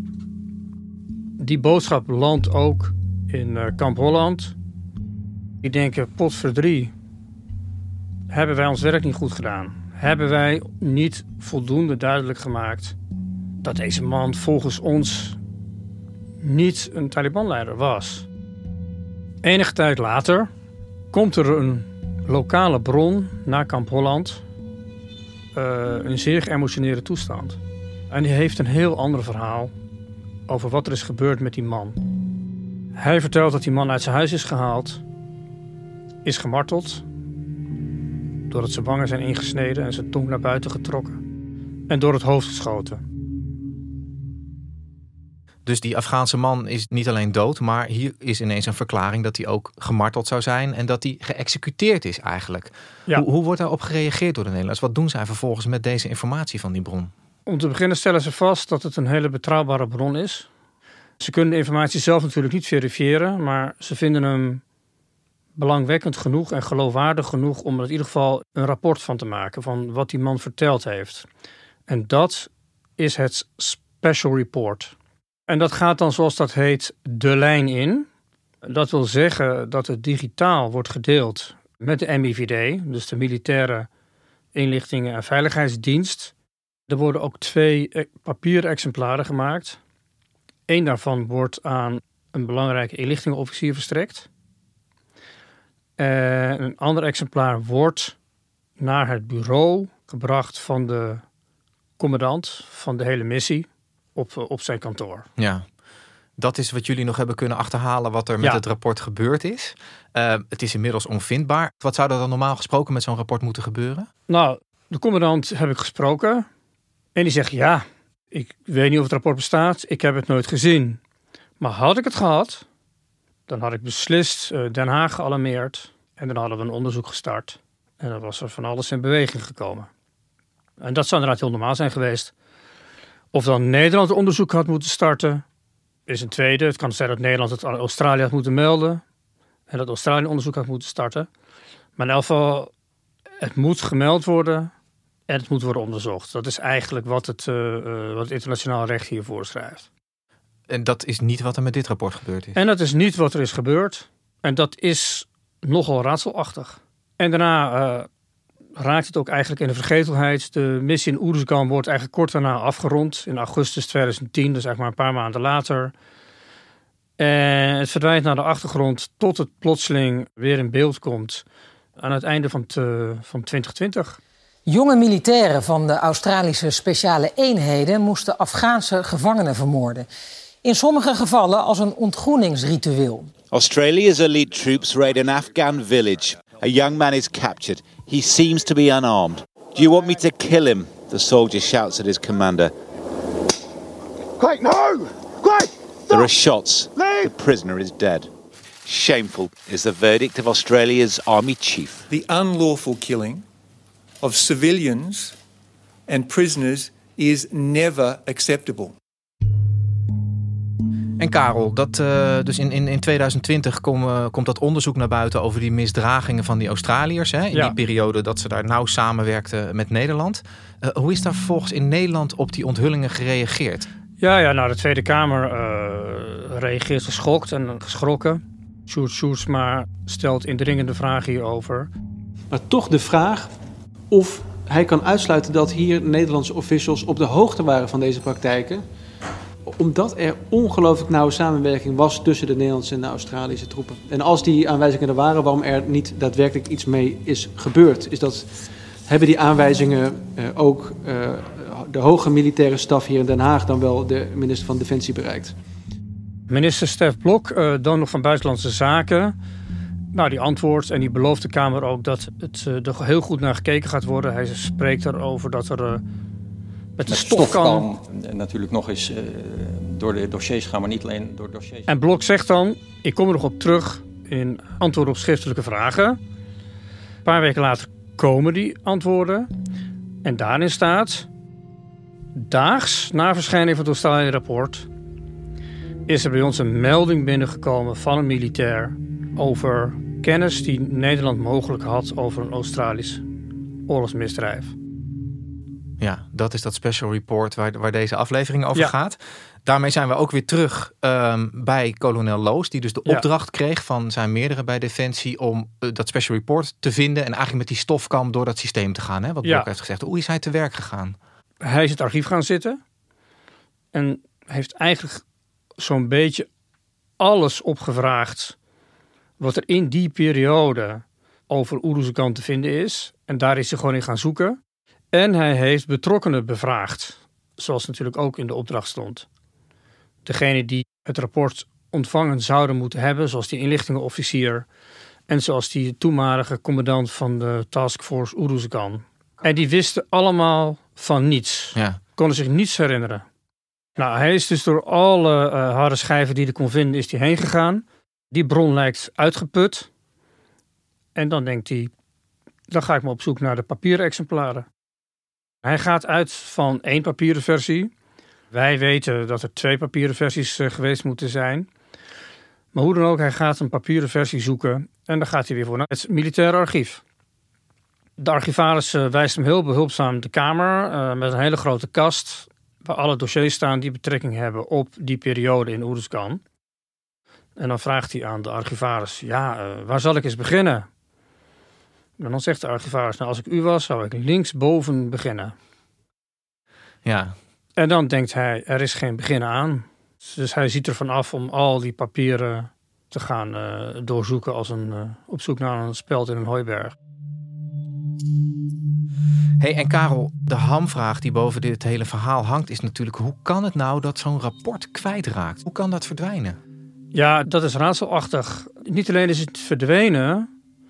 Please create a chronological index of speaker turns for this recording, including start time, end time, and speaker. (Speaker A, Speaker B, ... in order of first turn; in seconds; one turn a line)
Speaker A: 1.4-4.5
Speaker A: 5.6-6.9
Speaker A: 8.3-12.9
Speaker A: 13.6-15.4
Speaker A: 16.4-18.3
Speaker A: 19.4-20.5
Speaker A: 21.1-24.4
Speaker A: 25.5-27.6
Speaker A: 28.1-29.7
Speaker A: 30.5-32.0
Speaker A: 33.0-35.0
Speaker A: 36.2-37.0
Speaker A: 38.5-41.2
Speaker A: 41.9-43.0
Speaker B: 45.6-57.1
Speaker A: 57.5-60.5
Speaker A: 61.2-64.6
Speaker A: 65.5-71.2
Speaker A: 71.9-74.9
Speaker A: 75.5-78.0
Speaker A: 78.6-83.9
Speaker A: 84.5-86.3
Speaker A: 86.9-89.8
Speaker A: 90.7-94.3
Speaker A: 96.0-98.2
Speaker A: 98.8-101.2
Speaker A: 102.0-105.3
Speaker B: 105.4-105.6
Speaker B: 106.4-114.1
Speaker A: 114.3-116.5
Speaker A: 117.1-121.0
Speaker A: 121.6-122.6
Speaker A: 123.5-129.9
Speaker A: 130.8-132.3
Speaker A: 133.3-135.4
Speaker A: 136.1-139.0
Speaker A: 139.7-141.3
Speaker A: 142.0-142.7
Speaker A: 143.4-144.7
Speaker A: 145.3-149.9
Speaker B: 150.7-152.6
Speaker A: 152.5-158.1
Speaker A: 158.8-165.9
Speaker A: 167.2-171.4
Speaker A: 172.0-174.2
Speaker C: 174.7-180.1
Speaker C: 180.6-183.3
Speaker D: 183.5-192.7
Speaker D: 196.1-198.3
Speaker D: 198.8-202.0
Speaker E: 202.1-203.4
Speaker E: 204.2-205.3
Speaker E: 206.1-208.9
Speaker B: 211.2-223.9
Speaker A: 224.2-231.9
Speaker F: 232.5-233.5
Speaker F: 234.1-238.8
Speaker F: 239.7-248.6
Speaker F: 249.1-255.5
Speaker A: 256.5-259.3
Speaker A: 260.1-266.0
Speaker A: 267.0-267.9
Speaker G: 267.0-271.9
Speaker A: 271.9-276.2
Speaker A: 277.2-279.5
Speaker A: 280.2-281.3
Speaker A: 282.3-284.9
Speaker A: 286.1-293.2
Speaker A: 293.9-294.7
Speaker B: 296.0-311.1
Speaker A: 309.4-309.7
Speaker A: 311.6-312.8
Speaker A: 313.9-315.2
Speaker A: 315.8-316.5
Speaker A: 317.2-318.6
Speaker A: 319.4-324.6
Speaker A: 325.1-329.3
Speaker A: 330.2-334.6
Speaker A: 335.3-343.2
Speaker A: 344.0-349.9
Speaker A: 351.1-351.9
Speaker A: 352.7-354.7
Speaker A: 355.6-357.9
Speaker A: 358.5-361.7
Speaker A: 362.7-367.0
Speaker A: 368.2-376.4
Speaker A: 377.6-380.9
Speaker A: 382.2-385.5
Speaker B: 387.0-387.3
Speaker A: 387.8-396.9
Speaker B: 399.6-406.6
Speaker A: 407.1-410.5